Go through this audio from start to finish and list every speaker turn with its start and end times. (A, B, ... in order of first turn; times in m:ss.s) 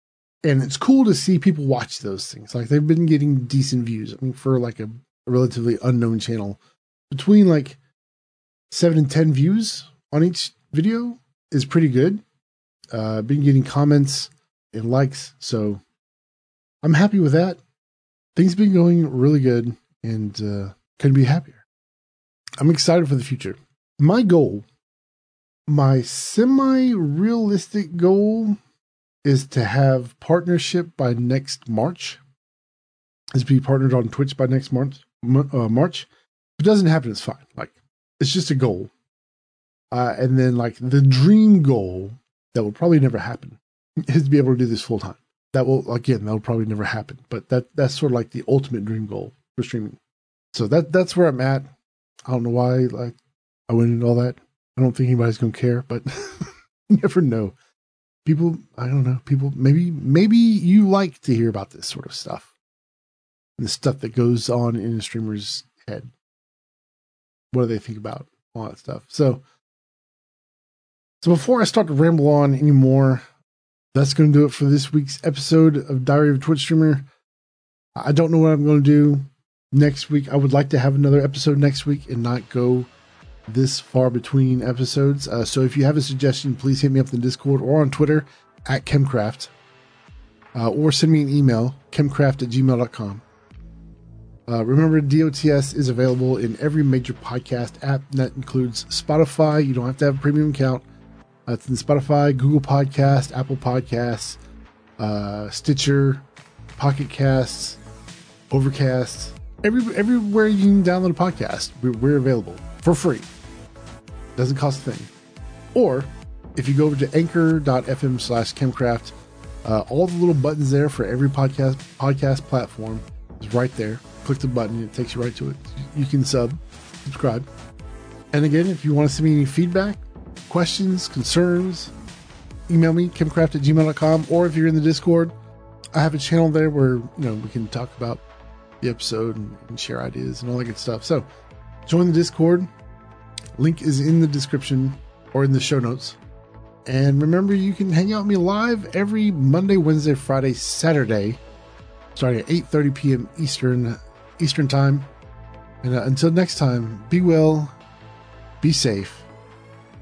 0:00.4-0:06.6 A
0:07.1-0:07.8 A
0:08.7-0:12.2 A
0:12.9-0:15.8 A
0:16.8-0:17.6 A
0:18.3-0:21.6 A
0:22.6-0:24.6 A
0:25.7-0:28.6 A
0:29.2-0:32.2 A
0:33.3-0:38.9 A
0:39.9-0:50.0 A
0:50.5-0:51.7 A
0:52.3-0:53.2 A
0:53.7-0:57.5 A
0:58.2-1:02.5 A
1:03.6-1:06.1 A
1:07.5-1:09.4 A
1:11.2-1:13.2 A
1:13.9-1:17.0 A
1:18.0-1:22.9 A
1:23.5-1:29.5 A
1:30.5-1:33.2 A
1:34.5-1:40.8 A
1:41.4-1:44.4 A
1:45.0-1:46.2 A
1:46.8-1:47.8 A
1:48.5-1:53.3 A
1:54.4-1:55.1 A
1:55.7-1:59.1 A
1:59.6-2:07.5 A
2:08.3-2:11.9 A
2:12.7-2:15.3 A
2:15.9-2:18.2 A
2:18.8-2:21.2 A
2:21.8-2:22.7 A
2:23.6-2:26.2 A
2:26.8-2:31.4 A
2:32.1-2:35.1 A
2:35.8-2:37.8 A
2:38.6-2:39.3 A